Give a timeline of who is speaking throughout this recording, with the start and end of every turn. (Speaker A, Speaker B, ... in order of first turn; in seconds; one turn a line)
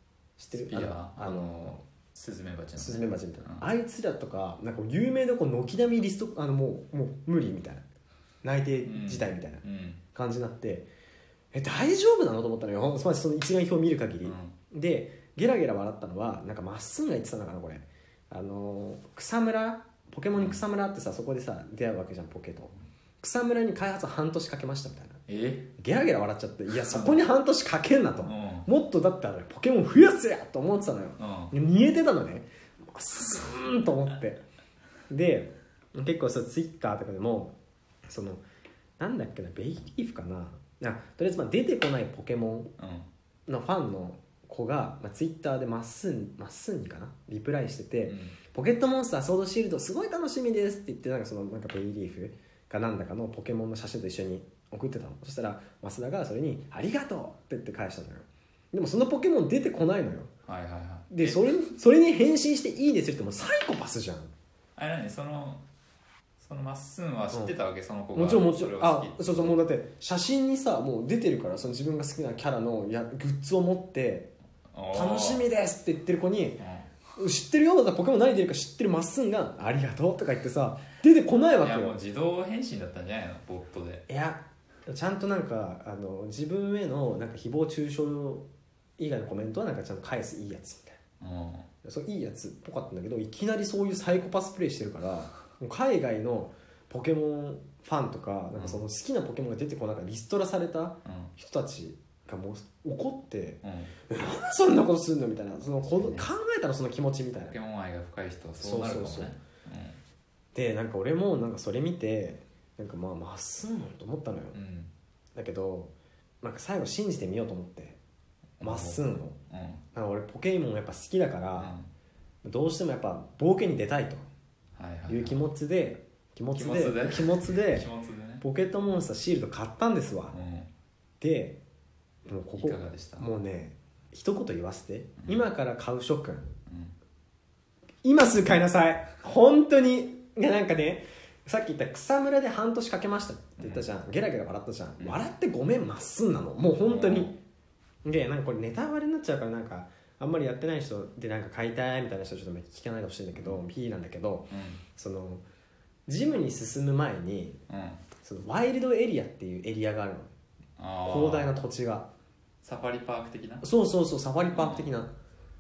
Speaker A: 0.4-1.8
Speaker B: 0.5-3.7
Speaker A: 2.8-7.8
Speaker A: 8.4-9.6
Speaker B: 8.8-10.0
Speaker A: 10.2-10.9
Speaker A: 11.5-25.2
Speaker B: 14.2-14.6
Speaker B: 20.3-20.6
Speaker B: 25.3-25.7
Speaker A: 25.8-34.4
Speaker B: 26.8-27.2
Speaker B: 28.2-28.7
Speaker B: 31.2-31.5
Speaker A: 35.1-37.5
Speaker A: 38.1-38.4
Speaker A: 39.0-42.7
Speaker B: 42.8-43.1
Speaker A: 43.5-60.3
Speaker B: 48.0-48.4
Speaker B: 60.5-61.5
Speaker A: 61.1-64.3
Speaker B: 64.8-65.6
Speaker B: 66.4-69.6
Speaker A: 68.1-74.3
Speaker B: 74.7-75.5
Speaker A: 74.9-76.6
Speaker B: 76.6-76.9
Speaker A: 77.2-82.0
Speaker B: 81.6-84.0
Speaker A: 84.1-88.5
Speaker A: 89.0-91.0
Speaker B: 91.2-91.7
Speaker A: 91.8-107.6
Speaker B: 98.5-98.8
Speaker B: 101.0-101.3
Speaker B: 103.6-103.9
Speaker B: 106.0-106.3
Speaker B: 107.5-110.0
Speaker A: 108.6-109.4
Speaker A: 110.5-114.6
Speaker B: 114.5-114.9
Speaker A: 115.3-118.0
Speaker B: 118.6-119.8
Speaker A: 118.6-119.4
Speaker A: 119.9-121.8
Speaker B: 121.6-121.9
Speaker A: 122.4-124.2
Speaker B: 124.8-125.4
Speaker A: 125.1-127.9
Speaker B: 126.5-128.4
Speaker A: 128.4-130.4
Speaker B: 130.3-130.7
Speaker A: 131.2-131.6
Speaker A: 132.3-136.6
Speaker B: 132.6-133.3
Speaker B: 135.2-135.5
Speaker B: 136.7-136.9
Speaker A: 138.0-147.3
Speaker B: 143.6-143.8
Speaker B: 146.8-147.4
Speaker A: 148.0-155.4
Speaker B: 153.3-153.6
Speaker B: 154.5-154.8
Speaker A: 156.1-157.6
Speaker B: 157.7-158.0
Speaker A: 158.2-160.3
Speaker B: 160.8-161.5
Speaker A: 161.1-162.1
Speaker B: 162.6-163.7
Speaker A: 163.6-165.2
Speaker B: 164.5-164.9